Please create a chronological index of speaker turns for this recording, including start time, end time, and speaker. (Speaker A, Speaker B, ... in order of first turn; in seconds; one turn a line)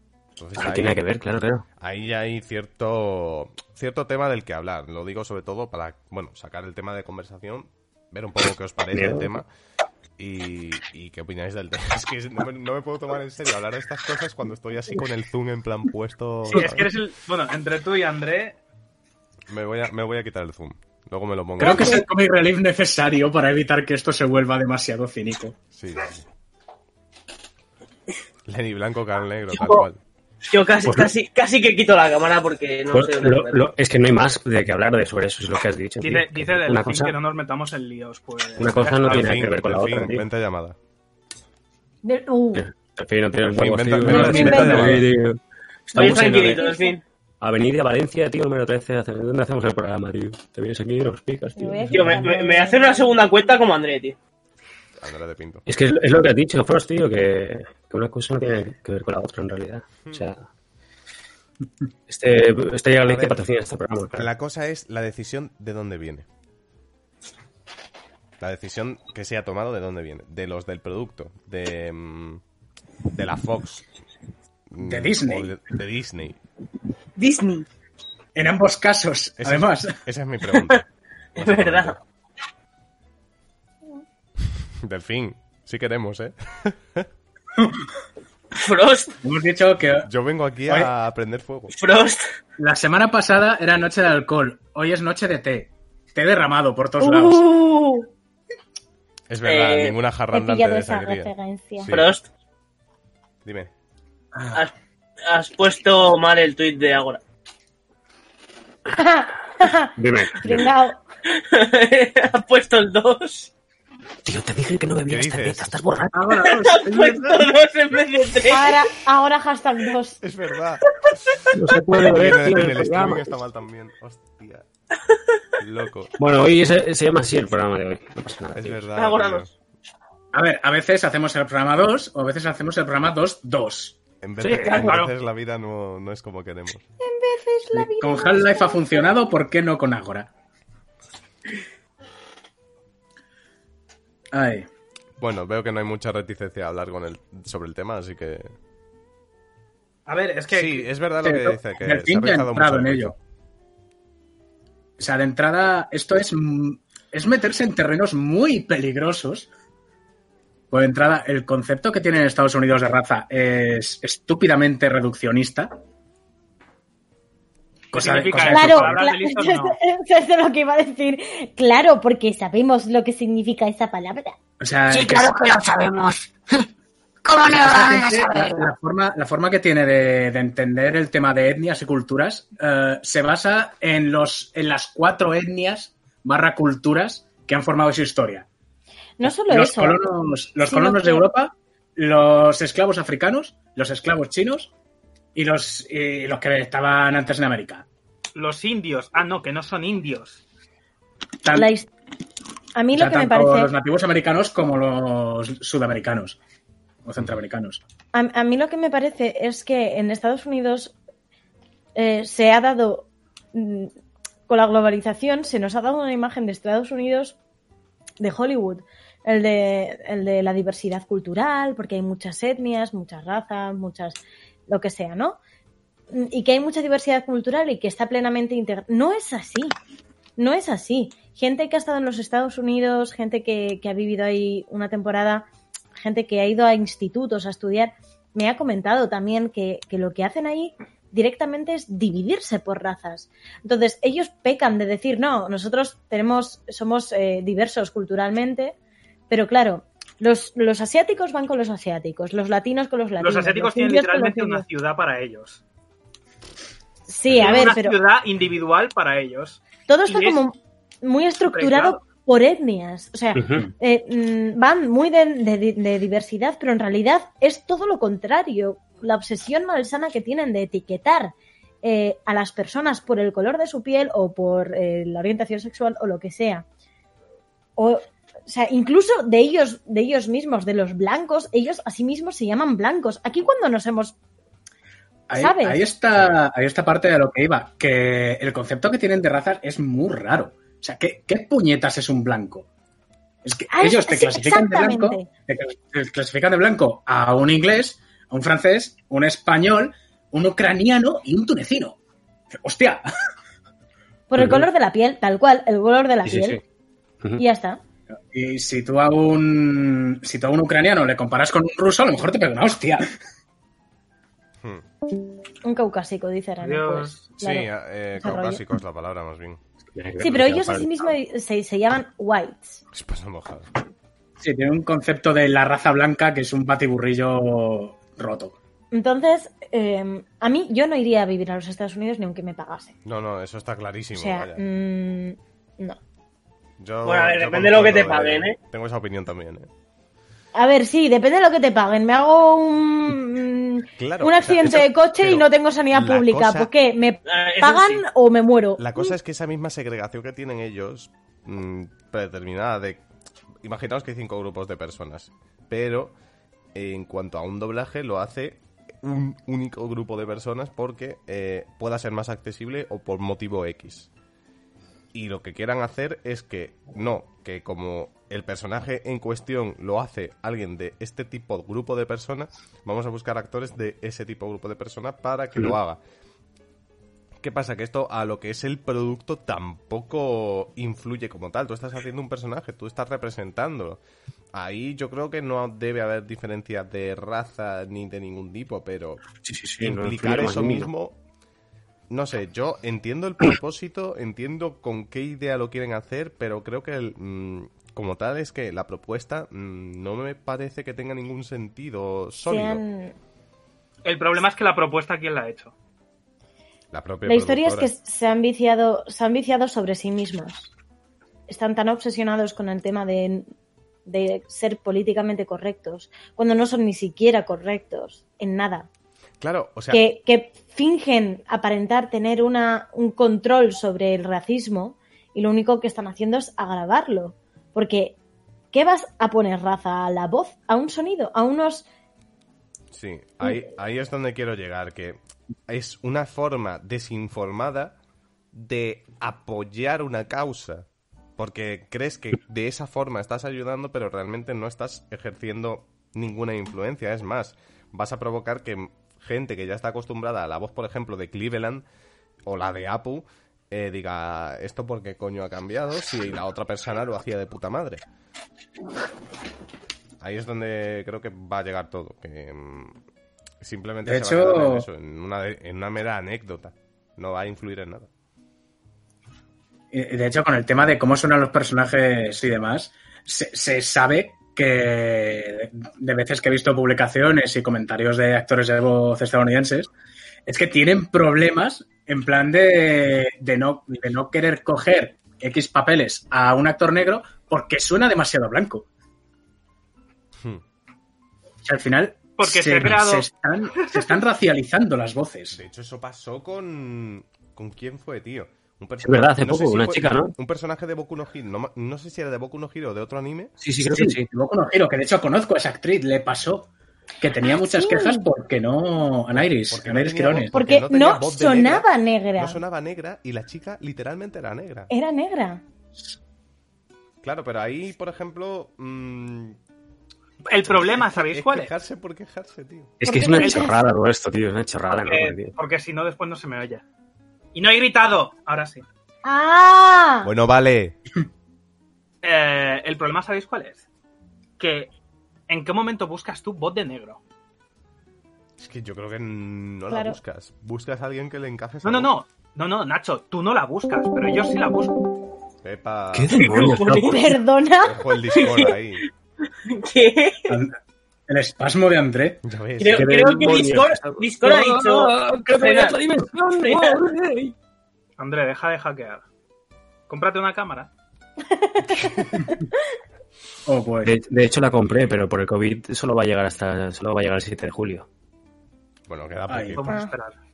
Speaker A: 0.4-1.0
Speaker B: 0.6-1.6
Speaker A: 1.8-9.5
Speaker B: 8.9-9.4
Speaker A: 10.2-16.9
Speaker C: 16.5-18.6
Speaker A: 19.5-22.0
Speaker D: 21.6-25.6
Speaker E: 21.6-22.0
Speaker A: 25.7-26.2
Speaker A: 28.4-30.0
Speaker F: 29.5-29.8
Speaker F: 30.5-33.7
Speaker B: 30.8-31.1
Speaker B: 32.9-37.1
Speaker C: 36.0-39.4
Speaker B: 38.6-40.2
Speaker A: 39.0-40.8
Speaker E: 42.0-42.6
Speaker B: 42.5-46.6
Speaker A: 43.5-45.1
Speaker E: 44.1-44.8
Speaker D: 44.1-44.9
Speaker F: 45.9-47.0
Speaker E: 46.4-47.0
Speaker B: 47.4-52.2
Speaker E: 51.5-53.1
Speaker F: 51.9-54.2
Speaker A: 55.0-55.7
Speaker B: 55.7-60.4
Speaker B: 62.1-64.3
Speaker A: 63.0-63.5
Speaker A: 64.1-66.2
Speaker A: 68.4-72.4
Speaker A: 73.1-73.8
Speaker A: 74.7-76.4
Speaker D: 74.8-75.5
Speaker F: 77.2-77.7
Speaker D: 78.3-80.0
Speaker A: 79.4-80.8
Speaker F: 81.3-82.0
Speaker A: 81.4-82.0
Speaker A: 84.8-87.1
Speaker F: 88.5-89.2
Speaker D: 89.2-90.1
Speaker A: 90.0-91.7
Speaker F: 91.7-92.2
Speaker D: 92.6-97.4
Speaker E: 97.0-98.1
Speaker A: 99.3-102.1
Speaker F: 99.4-100.0
Speaker E: 100.3-101.9
Speaker F: 101.9-102.3
Speaker A: 103.4-103.7
Speaker F: 105.3-107.2
Speaker E: 108.9-111.0
Speaker B: 110.0-110.7
Speaker F: 111.3-113.5
Speaker B: 114.2-116.2
Speaker A: 115.1-115.8
Speaker D: 116.1-117.5
Speaker F: 116.4-118.8
Speaker E: 118.5-120.2
Speaker A: 120.2-121.4
Speaker B: 121.5-123.3
Speaker A: 122.0-124.7
Speaker A: 125.6-126.1
Speaker B: 126.2-128.8
Speaker A: 128.5-129.5
Speaker F: 128.9-129.5
Speaker D: 130.3-134.0
Speaker A: 134.2-136.8
Speaker B: 134.4-135.0
Speaker C: 134.7-135.1
Speaker E: 137.0-139.3
Speaker D: 137.7-140.3
Speaker D: 144.3-144.7
Speaker A: 145.2-148.5
Speaker C: 150.1-150.9
Speaker A: 150.5-153.1
Speaker D: 151.2-153.1
Speaker D: 155.0-159.5
Speaker D: 160.7-165.7
Speaker D: 167.9-169.0
Speaker C: 167.9-169.8
Speaker E: 168.5-174.3
Speaker D: 174.6-175.3
Speaker G: 174.9-176.6
Speaker G: 177.2-178.7
Speaker D: 177.5-188.5
Speaker E: 189.2-190.0
Speaker D: 189.2-194.7
Speaker E: 190.6-191.3
Speaker D: 195.3-197.8
Speaker C: 198.3-200.4
Speaker D: 201.4-201.7
Speaker E: 201.5-201.9
Speaker E: 202.7-203.7
Speaker D: 202.9-206.4
Speaker D: 207.0-207.8
Speaker E: 208.1-210.9
Speaker E: 211.9-213.9
Speaker E: 214.5-217.4
Speaker E: 218.2-225.4
Speaker E: 226.1-229.7
Speaker E: 230.4-235.4
Speaker E: 236.0-248.7
Speaker E: 249.3-254.6
Speaker C: 253.2-255.6
Speaker E: 257.1-258.0
Speaker C: 257.3-260.4
Speaker E: 259.9-276.6
Speaker C: 261.5-262.0
Speaker B: 263.3-263.7
Speaker E: 277.8-284.1
Speaker D: 285.3-292.7
Speaker E: 285.4-285.8
Speaker D: 293.4-302.0
Speaker E: 293.7-295.3
Speaker D: 302.6-303.0
Speaker E: 304.3-306.6
Speaker B: 304.4-304.6
Speaker B: 306.2-306.6
Speaker E: 307.4-307.8
Speaker D: 308.3-313.0
Speaker E: 315.6-318.6
Speaker C: 316.6-317.3
Speaker A: 317.4-319.6
Speaker B: 319.9-321.0
Speaker E: 320.2-322.8
Speaker A: 322.9-323.7
Speaker D: 324.4-328.5
Speaker E: 328.9-332.9
Speaker A: 333.0-334.6
Speaker E: 334.1-336.0
Speaker A: 336.8-339.7
Speaker F: 337.0-338.6
Speaker E: 340.5-349.1
Speaker A: 344.0-346.7
Speaker F: 347.3-348.0
Speaker A: 348.8-353.0
Speaker A: 353.6-356.1
Speaker A: 356.7-364.1
Speaker A: 365.1-376.0
Speaker A: 377.4-384.0
Speaker A: 384.5-389.2
Speaker B: 389.4-390.9
Speaker A: 389.8-391.2
Speaker A: 392.1-402.8
Speaker E: 402.5-403.1
Speaker C: 404.0-405.7
Speaker A: 406.9-407.9
Speaker E: 407.2-410.7
Speaker E: 411.5-413.5
Speaker E: 414.1-418.9
Speaker A: 419.4-420.0
Speaker E: 419.9-428.2
Speaker E: 428.7-431.9
Speaker A: 432.9-437.9
Speaker A: 438.5-440.9
Speaker A: 441.4-451.8
Speaker A: 452.4-458.0
Speaker A: 460.2-463.0
Speaker A: 463.6-468.1
Speaker D: 464.0-464.9
Speaker D: 469.9-479.9
Speaker D: 480.4-488.9
Speaker D: 491.6-495.6
Speaker C: 492.4-494.2
Speaker A: 495.5-503.5
Speaker B: 499.0-500.3
Speaker B: 503.6-504.2
Speaker D: 503.8-506.7
Speaker D: 507.2-510.5
Speaker E: 507.6-508.2
Speaker A: 509.3-511.9
Speaker E: 510.5-512.6
Speaker A: 512.4-514.9
Speaker E: 514.9-515.6
Speaker A: 517.2-519.6
Speaker C: 520.5-521.7
Speaker A: 520.6-522.9
Speaker B: 523.0-525.5
Speaker E: 523.0-523.8
Speaker C: 525.0-526.8
Speaker C: 527.5-528.8
Speaker E: 529.2-530.3
Speaker A: 530.2-531.0
Speaker C: 532.2-533.8
Speaker C: 534.6-534.9
Speaker C: 535.5-537.2
Speaker A: 538.6-542.1
Speaker E: 539.9-540.2
Speaker C: 541.8-545.0
Speaker A: 545.6-546.5
Speaker B: 546.1-547.2
Speaker F: 546.4-547.4
Speaker E: 547.0-548.0
Speaker A: 547.8-549.0
Speaker F: 548.3-548.8
Speaker F: 549.6-550.5
Speaker D: 550.5-550.8
Speaker D: 551.3-552.4
Speaker A: 552.4-553.5
Speaker F: 552.8-556.0
Speaker B: 552.9-557.5
Speaker F: 556.6-557.0
Speaker C: 558.2-559.2
Speaker C: 560.1-560.9
Speaker E: 561.5-562.3
Speaker D: 563.6-564.1
Speaker B: 564.0-568.1
Speaker A: 569.1-570.0
Speaker D: 569.5-569.9
Speaker C: 569.7-570.4